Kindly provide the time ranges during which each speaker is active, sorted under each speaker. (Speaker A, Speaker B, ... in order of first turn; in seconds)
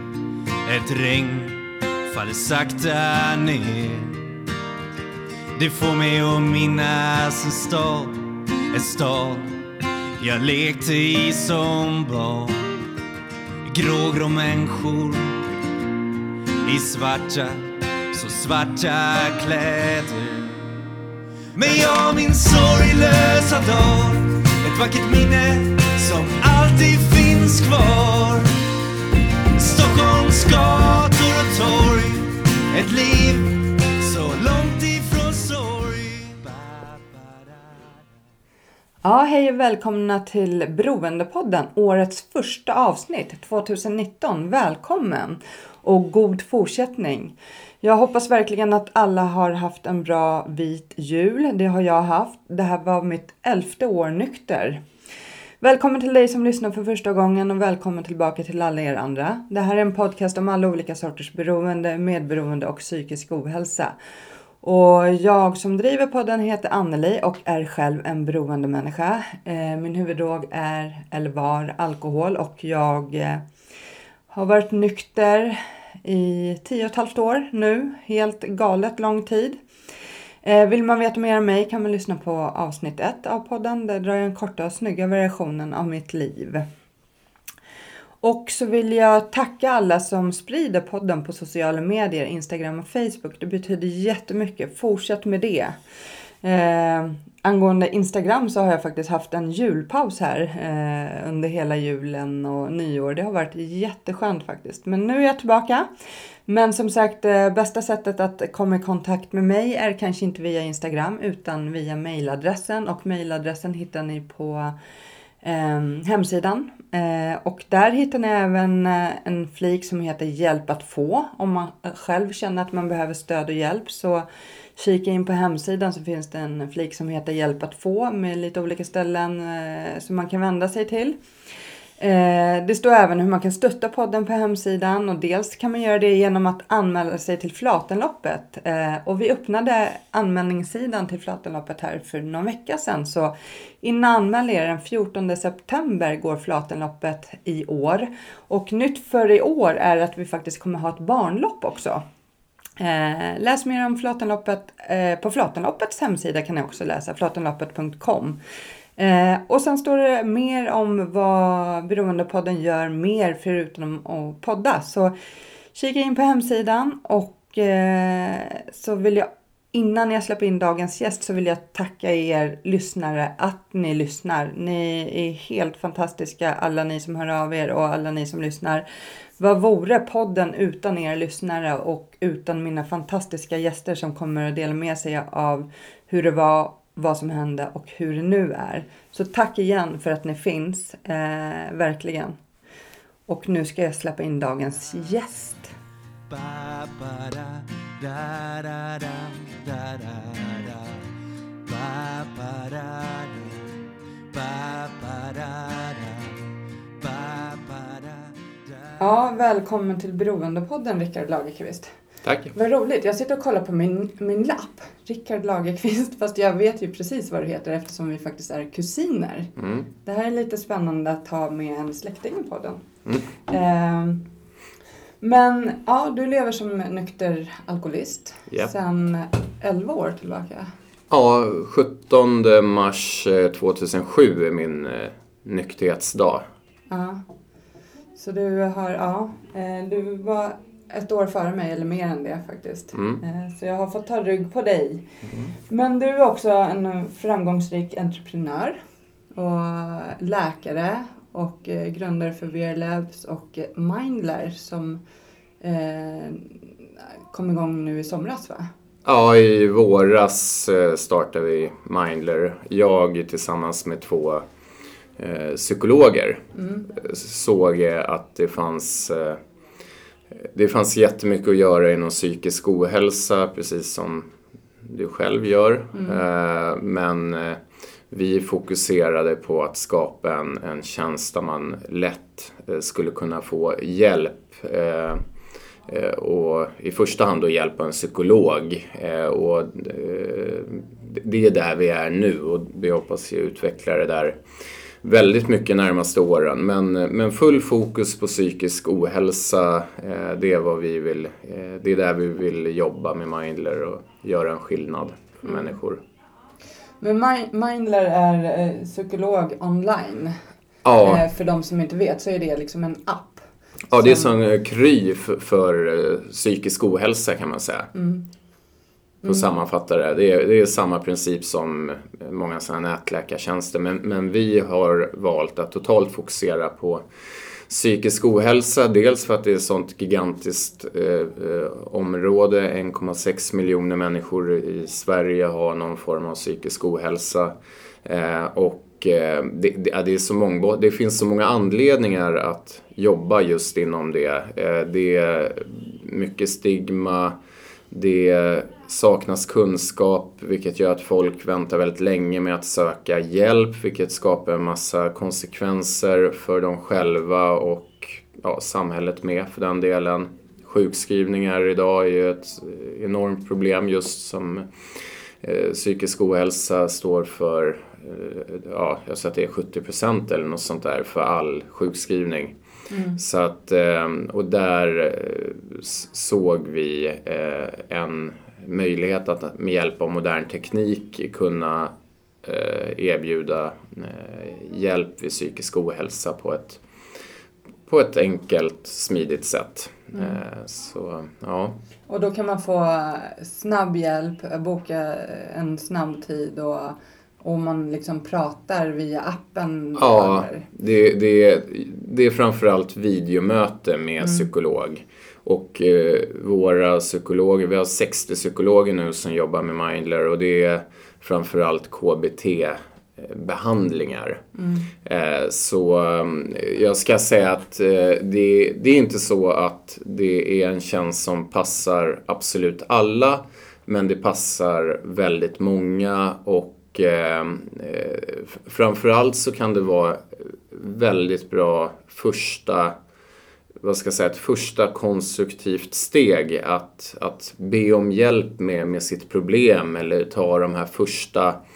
Speaker A: 0.7-4.3, 5.5-12.7, 13.7-15.5, 16.6-20.8, 21.6-28.6, 29.6-37.9, 196.3-201.1, 201.7-203.7, 204.3-206.4, 207.0-208.9
Speaker B: 39.0-54.8, 55.6-64.0, 64.6-73.4, 74.3-79.6, 80.4-86.7, 88.2-95.8, 96.4-105.9, 106.5-114.8, 115.4-131.2, 132.0-152.0, 152.8-158.4, 159.0-165.1, 165.7-178.8, 179.4-192.4, 193.3-195.7, 209.0-211.9, 212.5-219.5, 220.0-222.8, 223.3-224.2, 225.2-230.7, 236.9-237.2, 238.1-245.1, 245.7-248.8, 249.3-255.0, 255.6-256.6, 257.3-258.7, 266.6-266.9, 275.9-276.2, 305.4-305.7, 307.0-310.4, 311.0-314.3, 317.9-318.2, 319.2-319.5, 372.9-373.2, 392.1-400.7, 404.2-404.5, 414.6-414.9
Speaker C: 212.2-212.5, 219.6-219.8, 231.1-236.4, 242.9-243.2, 259.1-264.4, 265.2-269.4, 270.4-274.3, 274.8-285.2, 285.9-294.4, 295.0-306.0, 310.8-311.2, 313.9-317.9, 319.2-327.0, 327.7-337.5, 338.1-347.3, 347.9-364.7, 365.4-372.5, 373.2-381.9, 382.4-386.8, 387.9-391.8, 400.0-414.4, 415.0-432.9, 433.8-441.6